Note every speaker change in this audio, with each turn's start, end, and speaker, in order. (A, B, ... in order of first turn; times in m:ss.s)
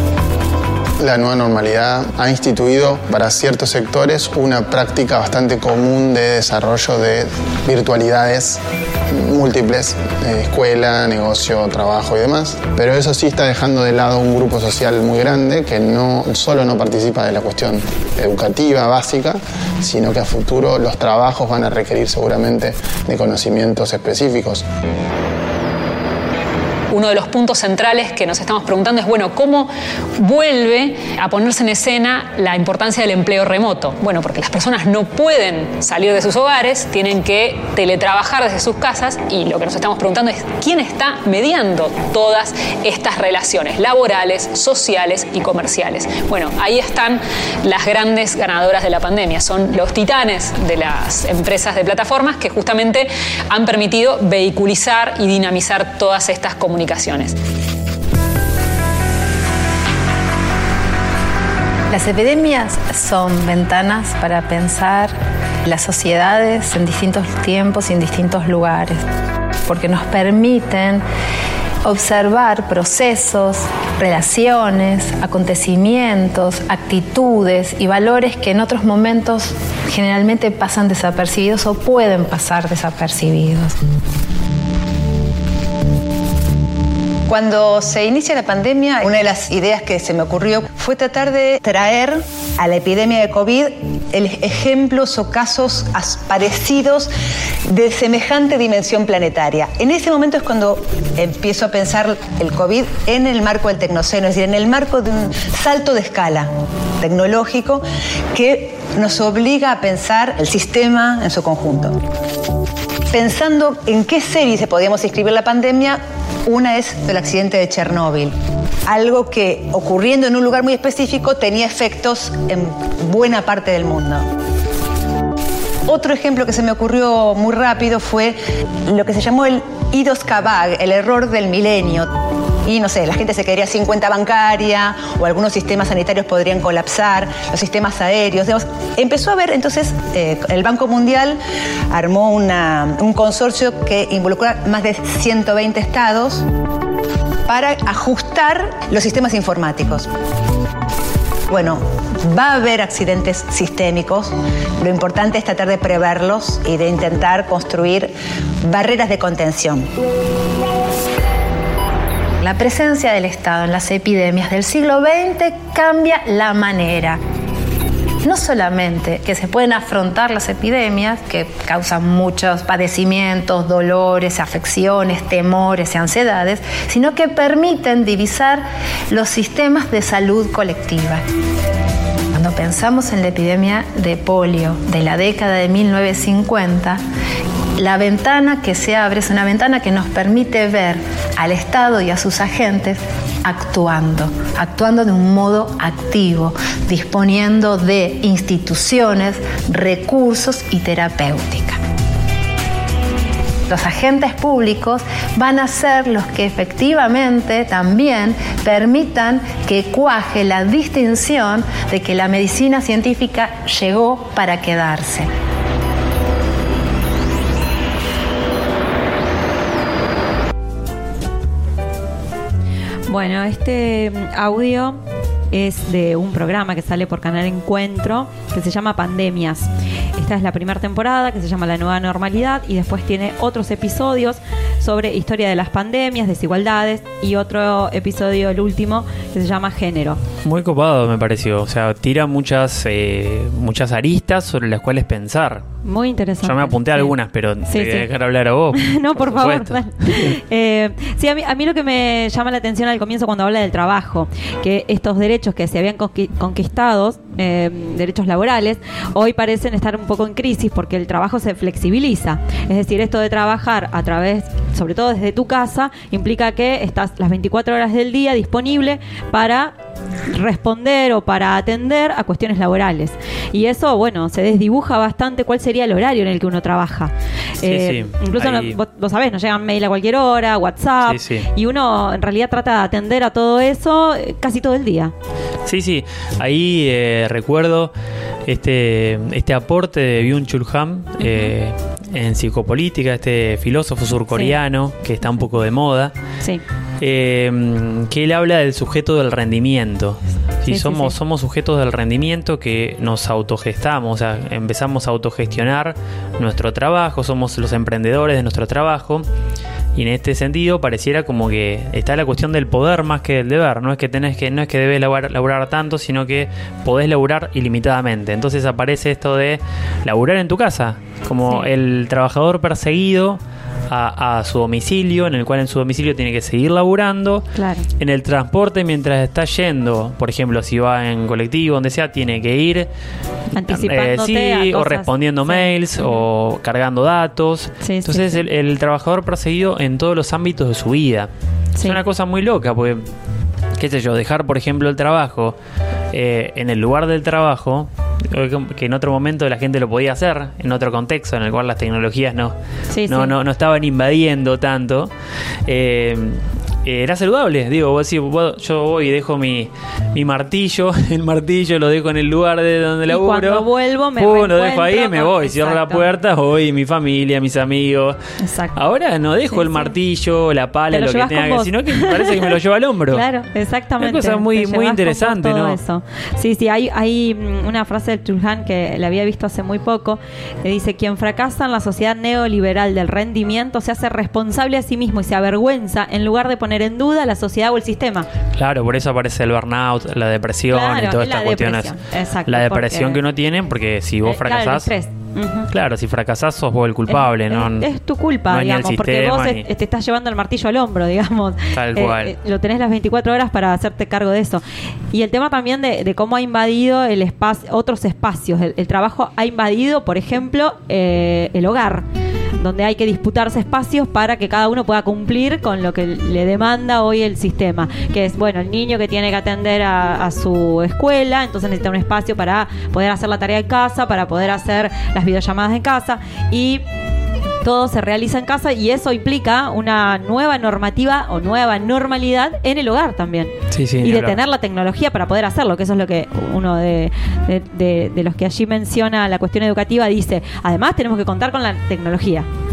0:01.0-0:24.6 A
0:26.9-0:57.4 B
1:01.9-1:09.0 C
1:09.7-1:11.0 C
1:11.8-1:23.8 C
1:27.3-1:37.1 D
1:37.7-1:52.0 D
1:53.1-1:58.4 D
1:58.9-2:04.3 D
2:05.9-2:12.1 D
2:12.6-2:21.4 D
2:21.9-2:26.4 D
2:27.5-2:30.1 D
2:31.5-2:39.9 D
2:42.4-2:47.2 C
2:48.2-3:01.2 C
3:02.3-3:07.0 C
3:07.8-3:21.8 C
3:23.7-3:35.3 C
3:43.1-3:45.0 E
3:45.5-4:00.2 E
4:00.4-4:05.6 F
4:05.8-4:07.1 E
4:06.4-4:10.4 F
4:07.7-4:08.1 E
4:08.7-4:29.7 E
4:30.3-4:45.1 E
4:37.6-4:38.8 F
4:41.1-4:41.5 F
4:45.7-4:47.9 F
4:48.5-4:56.1 F
4:51.2-4:51.5 E
4:57.0-5:09.2 F
5:00.7-5:01.1 E
5:10.0-5:27.4 F
5:27.6-5:27.9 E
5:28.0-5:32.9 F
5:33.6-5:36.2 E
5:33.6-5:41.3 F
5:37.8-5:38.4 E
5:41.8-5:43.1 F
5:43.8-5:45.6 F
5:46.1-5:52.5 F
5:52.9-5:53.3 E
5:53.1-5:55.1 F
5:55.7-6:08.2 F
6:03.1-6:06.0 E
6:08.4-6:08.8 E
6:08.8-6:13.2 F
6:09.5-6:09.9 E
6:10.9-6:12.6 E
6:13.1-6:28.3 E
6:14.0-6:15.8 F
6:28.6-6:31.9 F
6:30.7-6:33.2 E
6:32.5-6:34.9 F
6:34.2-6:35.7 E
6:35.7-6:37.9 F
6:37.1-6:52.0 E
6:38.5-6:39.6 F
6:41.8-6:42.3 F
6:52.6-7:06.8 E
7:07.6-7:22.5 E
7:13.7-7:14.4 F